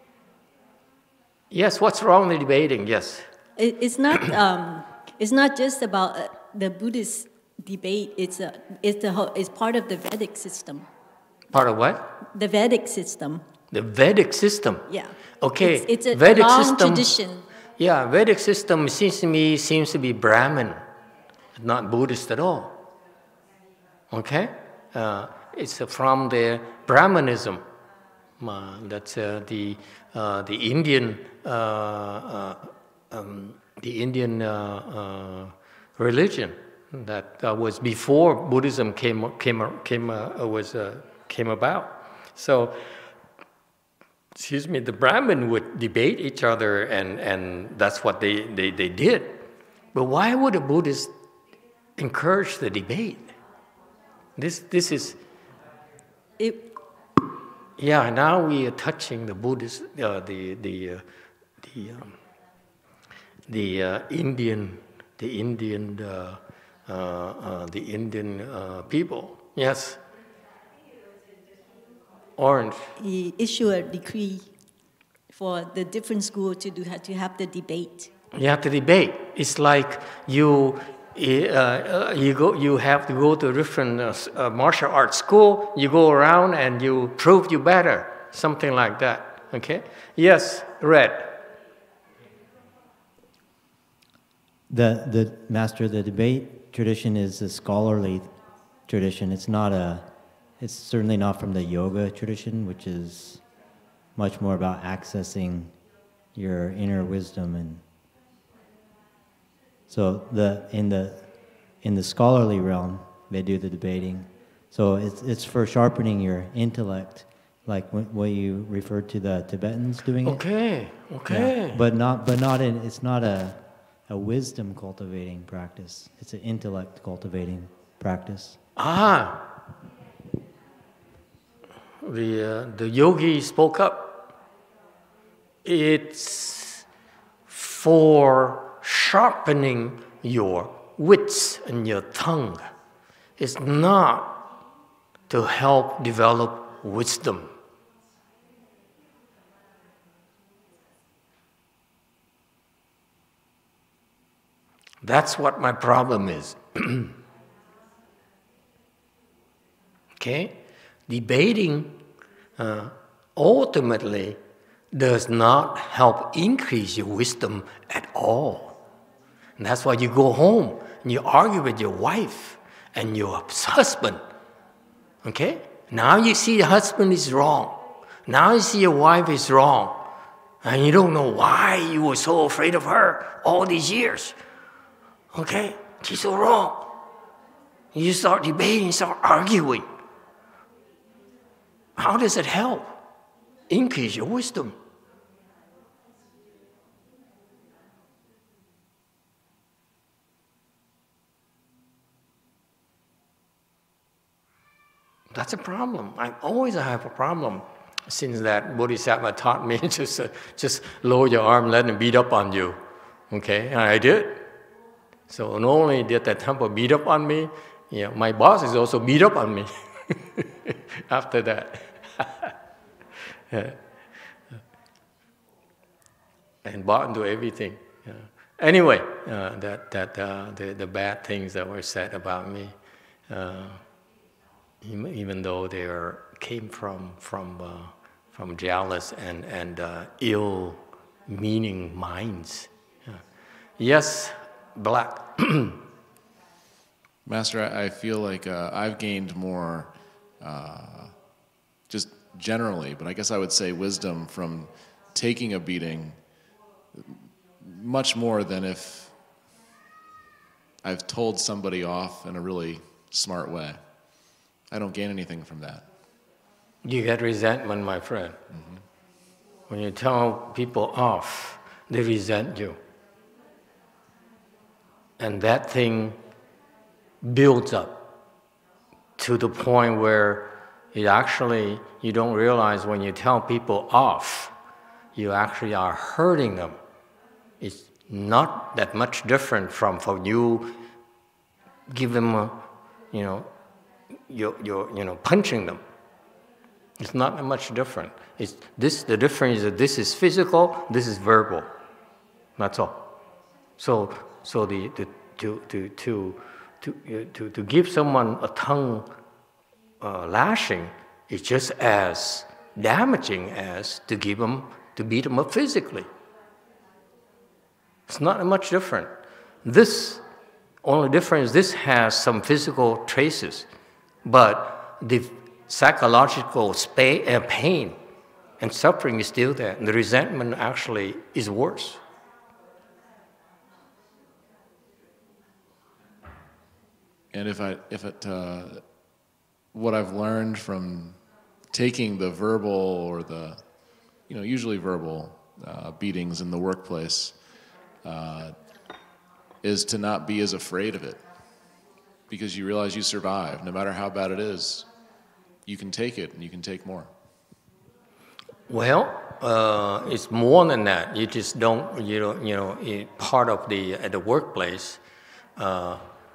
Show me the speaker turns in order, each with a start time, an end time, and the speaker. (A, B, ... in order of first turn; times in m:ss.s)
0:01.5-0:03.3 A
0:03.6-0:10.9 B
0:11.5-0:12.1 A
0:12.3-0:13.4 B
0:13.7-0:14.9 A
0:14.9-0:17.4 B
0:15.4-0:17.1 A
0:17.8-0:20.8 A
0:21.6-0:22.8 A
0:24.1-0:27.6 A
0:28.4-0:42.9 A
0:44.4-0:51.1 A
0:52.0-0:53.3 A
0:54.4-0:55.2 A
0:56.4-0:56.7 B
0:57.8-1:01.0 A
1:01.6-1:02.1 A
1:03.5-1:10.0 A
1:12.4-1:12.9 A
1:13.0-1:14.5 B
1:15.3-1:18.1 B
1:18.3-1:31.4 A
1:34.7-1:38.4 C
1:38.9-1:43.4 C
1:44.1-1:45.8 C
1:46.4-1:47.8 C
1:49.9-2:00.5 C
2:00.2-2:01.8 A
2:01.3-2:08.6 C
2:08.8-2:09.4 A
2:12.0-2:14.3 A
2:15.6-2:16.8 A
2:17.5-2:22.6 A
2:23.4-2:24.4 A
2:25.3-2:27.5 A
2:35.0-2:37.1 A
2:40.2-2:42.0 A
2:42.6-2:44.4 A
2:44.9-2:48.8 A
2:49.6-2:54.2 A
2:55.2-3:00.1 A
3:00.6-3:04.4 A
3:05.3-3:06.9 A
3:07.9-3:09.9 A
3:12.0-3:13.0 A
3:13.7-3:14.7 A
3:25.3-3:34.5 A
3:35.3-3:42.5 A
3:43.5-3:43.8 A
3:46.6-3:52.7 A
3:53.3-3:53.8 A
3:54.8-4:03.2 A
4:03.8-4:05.8 A
4:07.2-4:11.2 D
4:11.9-4:16.2 D
4:17.0-4:19.1 D
4:20.8-4:23.8 D
4:24.7-4:25.9 D
4:26.8-4:28.4 A
4:28.5-4:28.8 D
4:29.7-4:32.8 A
4:35.2-4:36.2 A
4:37.2-4:38.1 A
4:39.2-4:44.5 A
4:45.1-4:46.8 A
4:47.6-4:50.7 A
4:51.9-4:52.6 A
4:53.1-4:53.5 A
4:54.3-4:55.8 A
4:57.0-5:01.7 A
5:02.6-5:03.1 A
5:03.8-5:09.1 A
5:10.0-5:16.1 A
5:18.1-5:19.1 A
5:19.6-5:20.2 A
5:20.8-5:23.7 A
5:24.2-5:28.0 A
5:28.6-5:32.0 A
5:37.3-5:38.9 D
5:39.7-5:43.6 D
5:44.3-5:47.4 D
5:48.0-5:48.6 D
5:49.6-5:51.2 D
5:52.3-5:54.9 D
5:55.7-5:57.1 D
5:58.7-6:05.0 A
6:05.6-6:06.0 A